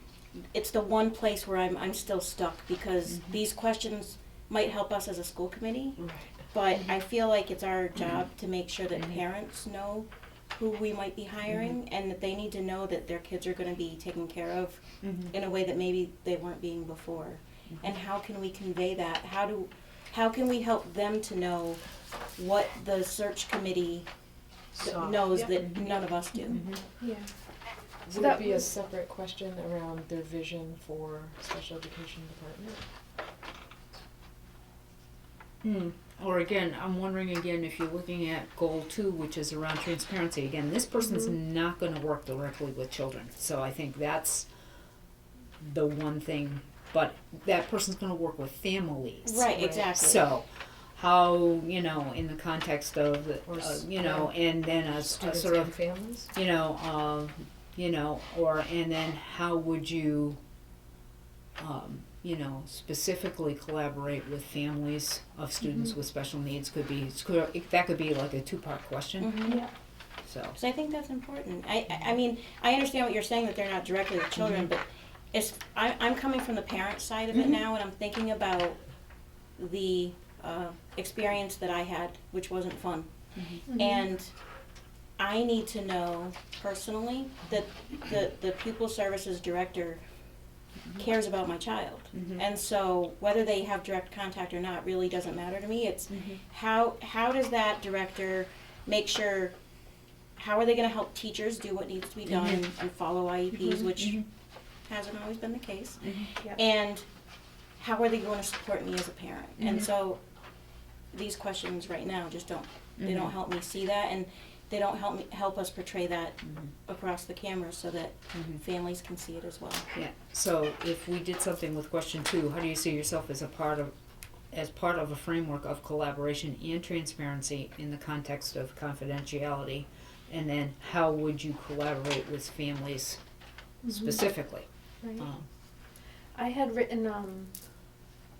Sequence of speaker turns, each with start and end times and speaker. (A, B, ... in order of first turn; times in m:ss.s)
0:00.5-0:06.0 A
0:03.1-0:03.4 B
0:06.0-0:06.4 C
0:06.5-0:21.8 A
0:08.9-0:09.2 B
0:11.5-0:11.7 B
0:15.0-0:15.3 B
0:22.4-0:24.1 A
0:24.8-0:26.6 A
0:24.8-0:25.5 C
0:25.6-0:26.0 B
0:26.5-0:26.8 B
0:27.0-0:27.3 D
0:28.0-0:32.8 C
0:28.1-0:28.6 D
0:35.6-0:44.5 B
0:45.6-1:00.4 B
0:49.2-0:50.2 A
0:53.4-0:56.3 C
1:01.6-1:09.6 B
1:09.2-1:09.6 A
1:10.2-1:10.6 B
1:10.5-1:18.8 A
1:14.4-1:14.7 B
1:17.3-1:17.6 B
1:19.6-1:24.3 A
1:23.4-1:23.6 B
1:23.7-1:24.0 D
1:25.2-1:30.0 A
1:31.0-1:39.5 A
1:32.1-1:32.4 B
1:36.1-1:36.4 B
1:40.4-1:44.2 A
1:42.2-1:42.6 B
1:43.6-1:43.8 D
1:44.0-1:44.2 B
1:44.8-1:47.0 A
1:46.0-1:46.3 B
1:47.8-1:50.2 A
1:49.6-1:49.9 B
1:51.1-1:59.9 A
1:53.0-1:53.3 B
1:56.4-1:56.7 B
1:58.3-1:58.6 B
1:59.9-2:03.9 B
2:04.5-2:13.2 B
2:13.8-2:14.2 D
2:13.8-2:15.4 B
2:16.3-2:17.5 D